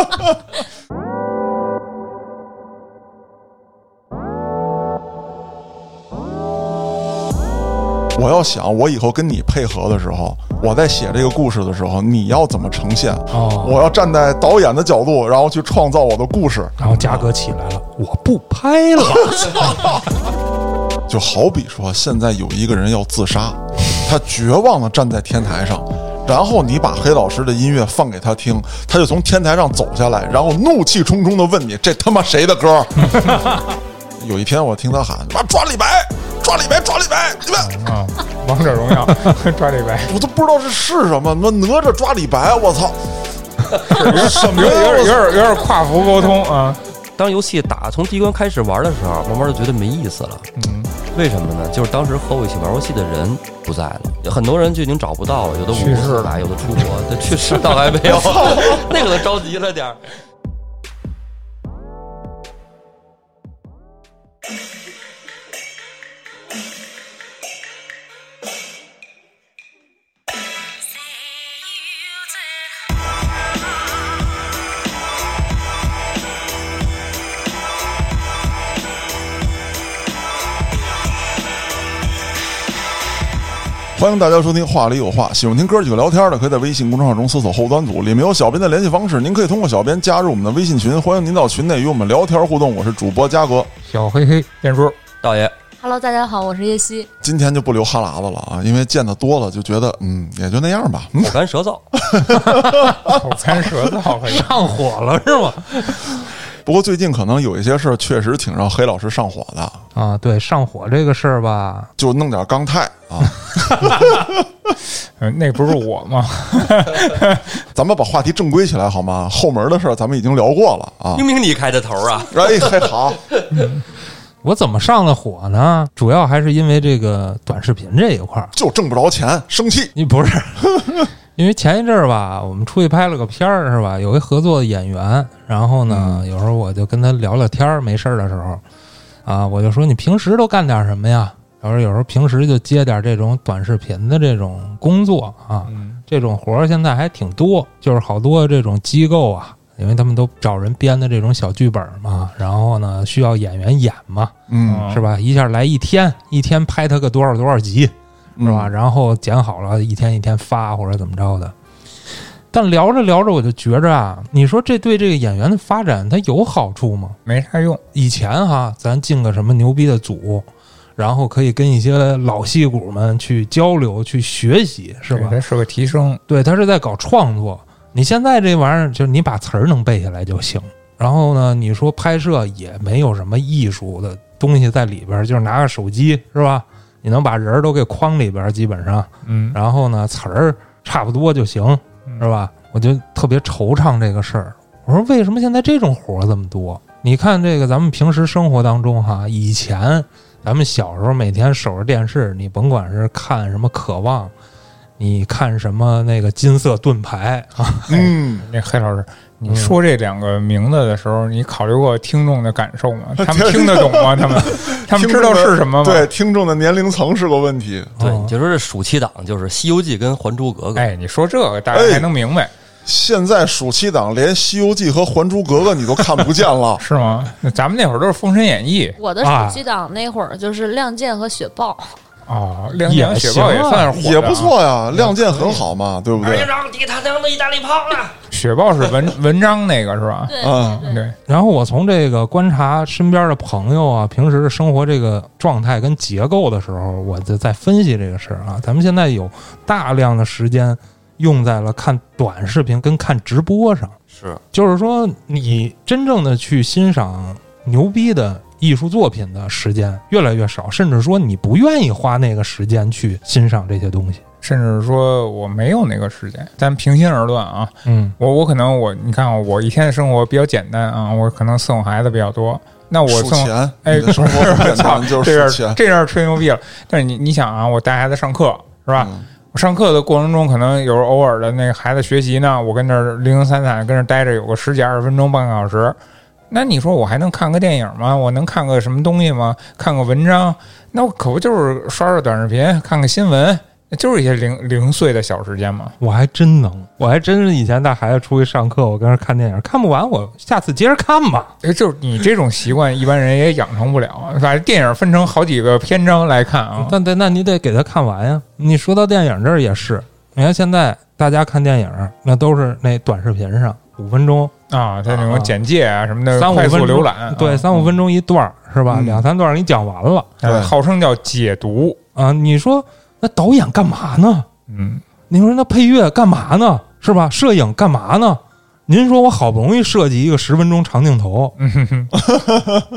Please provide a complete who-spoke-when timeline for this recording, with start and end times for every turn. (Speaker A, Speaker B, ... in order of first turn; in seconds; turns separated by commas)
Speaker A: 8.1-17.3, Speaker B: 13.3-13.8, Speaker B: 16.8-19.9, Speaker A: 19.3-19.9, Speaker A: 21.1-33.4, Speaker C: 33.0-33.6, Speaker A: 34.2-37.7, Speaker C: 37.5-40.1, Speaker A: 40.1-43.0, Speaker A: 43.8-45.3, Speaker C: 43.9-46.8, Speaker D: 47.2-50.5, Speaker C: 50.5-50.9, Speaker D: 51.1-60.0, Speaker C: 55.7-56.9, Speaker A: 58.1-58.8, Speaker A: 84.0-93.7, Speaker C: 93.9-95.0, Speaker D: 95.2-95.5, Speaker E: 95.8-97.1, Speaker A: 97.2-101.3, Speaker D: 101.2-101.9, Speaker A: 102.0-103.2, Speaker C: 103.0-104.6, Speaker B: 104.2-106.1, Speaker A: 106.7-109.8, Speaker B: 109.9-111.9, Speaker A: 112.0-114.3, Speaker C: 115.2-117.6, Speaker A: 117.7-121.2, Speaker D: 121.1-123.4, Speaker A: 122.3-123.2, Speaker B: 124.4-128.5, Speaker A: 128.5-129.9, Speaker B: 129.9-138.6, Speaker A: 130.7-131.0, Speaker A: 135.8-136.2, Speaker B: 139.2-154.3, Speaker C: 145.7-146.0, Speaker A: 154.5-154.8, Speaker C: 154.7-155.0, Speaker B: 154.9-161.5, Speaker A: 158.4-158.7, Speaker B: 162.5-167.2, Speaker C: 167.2-167.8, Speaker B: 167.9-170.4, Speaker B: 171.0-175.4, Speaker C: 175.1-176.2, Speaker B: 176.3-204.3, Speaker C: 189.2-189.6, Speaker B: 205.0-208.1, Speaker A: 207.9-208.4, Speaker C: 207.9-216.1, Speaker B: 209.5-209.8, Speaker A: 213.2-217.9, Speaker B: 218.0-218.3, Speaker D: 218.0-220.9, Speaker C: 220.8-222.5, Speaker A: 221.7-222.1, Speaker A: 222.8-226.8, Speaker C: 226.8-229.0, Speaker E: 229.0-231.9, Speaker B: 229.2-229.6, Speaker C: 232.3-234.5, Speaker B: 232.8-233.9, Speaker A: 233.9-236.5, Speaker B: 234.9-235.6, Speaker D: 236.2-238.2, Speaker C: 238.3-241.2, Speaker E: 240.3-241.1, Speaker A: 240.4-240.9, Speaker B: 241.3-254.0, Speaker D: 254.1-254.4, Speaker B: 254.5-264.2, Speaker C: 264.4-286.0, Speaker B: 267.9-268.1, Speaker A: 273.1-275.8, Speaker A: 278.9-279.2, Speaker C: 286.5-295.9, Speaker B: 296.0-301.5, Speaker C: 301.6-307.0, Speaker B: 306.8-314.5, Speaker C: 314.7-318.0, Speaker B: 315.1-315.5, Speaker B: 316.3-320.3, Speaker A: 318.9-319.2, Speaker C: 320.4-322.0, Speaker A: 320.4-320.7, Speaker B: 322.1-324.5, Speaker C: 324.7-325.0, Speaker B: 325.3-331.5, Speaker C: 331.6-332.1